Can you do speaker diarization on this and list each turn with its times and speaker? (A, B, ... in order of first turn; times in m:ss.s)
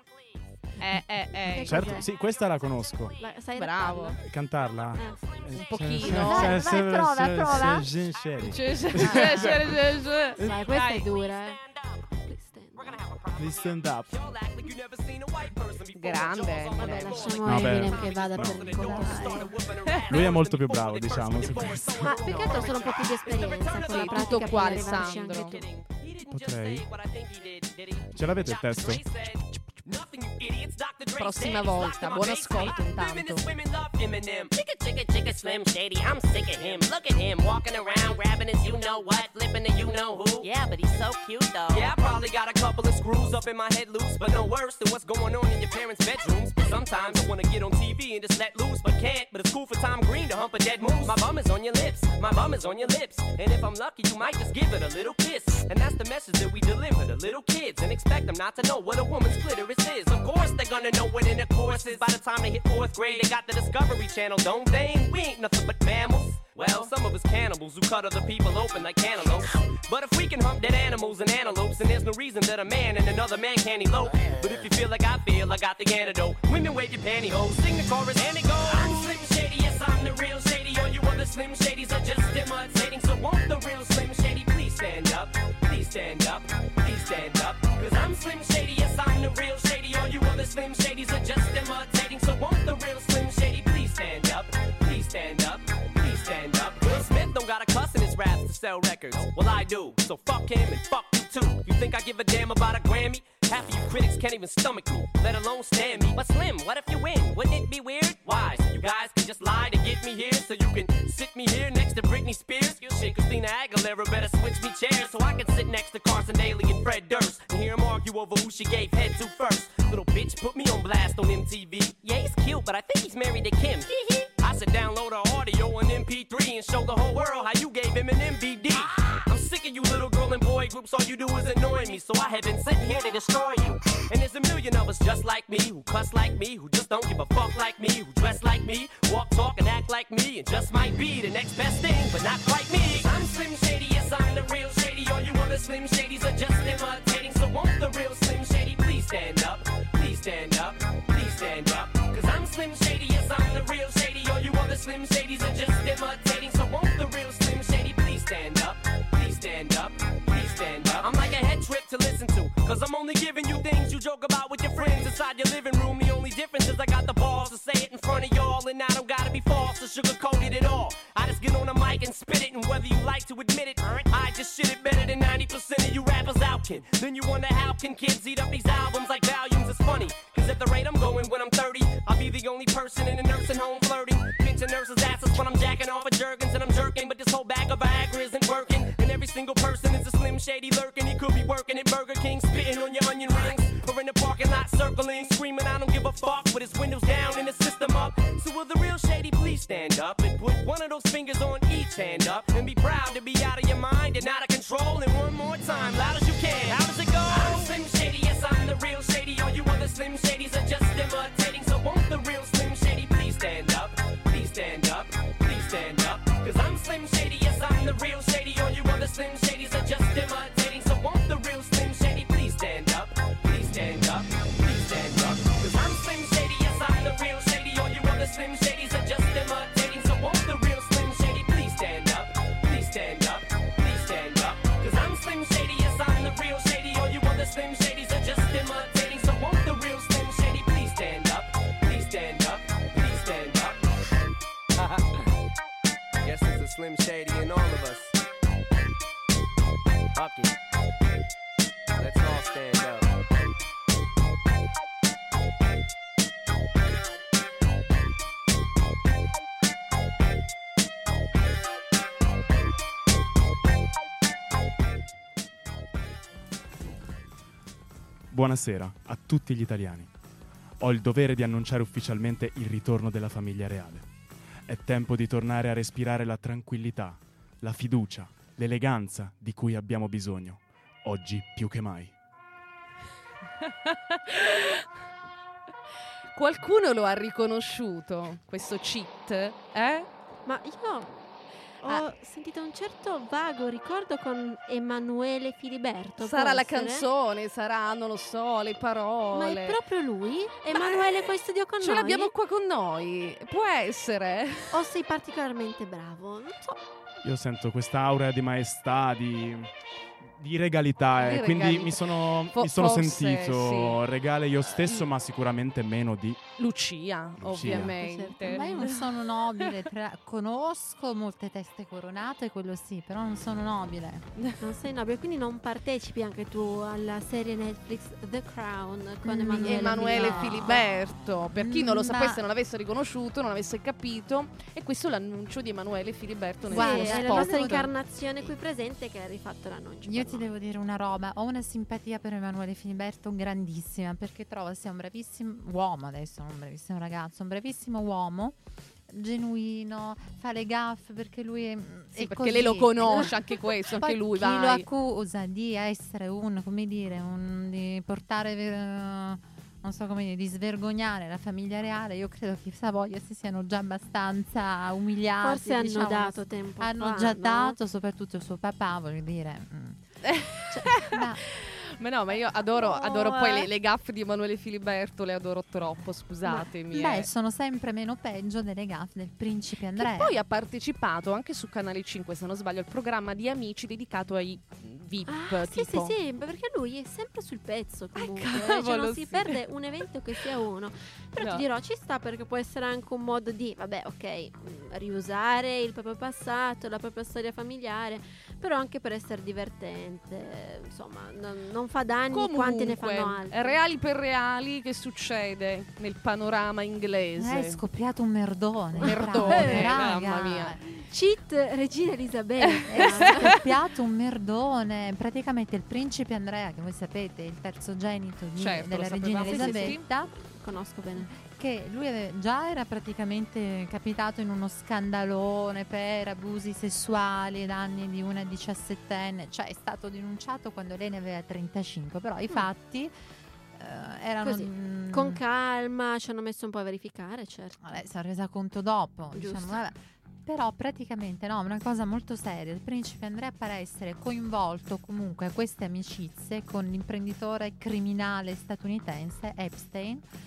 0:00.8-0:01.9 A
0:01.4-0:02.1 B
0:01.6-0:03.2 C
0:02.4-0:03.1 D
0:03.2-0:04.2 B
0:03.6-0:04.2 A
0:04.2-0:09.8 C
0:05.0-0:05.3 B
0:05.1-0:05.5 D
0:05.5-0:06.8 A
0:06.0-0:07.9 E
0:08.4-0:10.5 A
0:09.0-0:09.5 E
0:09.1-0:09.5 B
0:10.4-0:11.6 B
0:10.7-0:12.1 D
0:12.2-0:13.0 B
0:12.8-4:03.8 D
0:13.4-0:14.1 C
0:16.0-0:17.4 A
0:16.8-0:19.5 B
0:17.4-0:19.2 C
0:18.7-0:19.6 E
0:20.1-0:22.4 C
0:22.0-0:25.7 B
0:23.8-0:25.6 A
0:26.3-0:26.9 C
0:28.1-0:29.0 C
0:31.2-0:33.5 A
4:06.2-4:08.1 D
4:10.2-4:10.5 D
4:12.0-4:13.0 D
4:28.3-4:30.1 C
4:30.8-4:34.1 C
4:34.7-4:42.1 C
4:43.9-4:44.9 A
4:46.4-4:50.1 A
4:50.5-4:51.2 B
4:51.8-4:57.1 B
4:56.2-4:59.8 A
4:59.3-5:02.3 B
5:00.7-5:04.8 A
5:04.7-5:06.8 B
5:07.2-5:09.7 C
5:10.3-5:16.4 C
5:11.2-5:14.0 A
5:14.6-5:15.1 A
5:16.6-5:19.7 A
5:17.4-5:18.0 C
5:17.7-5:18.9 B
5:18.4-5:24.3 E
5:24.6-5:30.8 B
5:29.2-5:32.4 E
5:29.6-5:37.9 A
5:36.7-5:37.9 E
5:36.7-5:40.5 B
5:40.0-6:10.0 E
5:52.2-5:54.9 A
6:05.4-6:07.8 B
6:10.2-6:17.3 A
6:10.7-6:11.4 E
6:12.8-6:13.7 B
6:16.6-6:20.4 E
6:20.0-6:26.2 A
6:25.3-6:43.8 B
6:28.2-6:29.6 A
6:31.4-6:31.6 A
6:42.3-6:47.8 A
6:47.4-6:50.8 E
6:49.0-6:50.8 A
6:49.0-6:50.0 B
6:51.0-6:53.6 B
6:52.8-6:53.6 A
6:52.9-7:00.3 E
6:58.6-7:00.0 A
6:59.4-7:01.3 B
7:01.2-7:13.1 E
7:13.7-7:15.4 E
7:14.4-7:17.8 B
7:17.8-7:30.3 E
7:19.4-7:19.8 B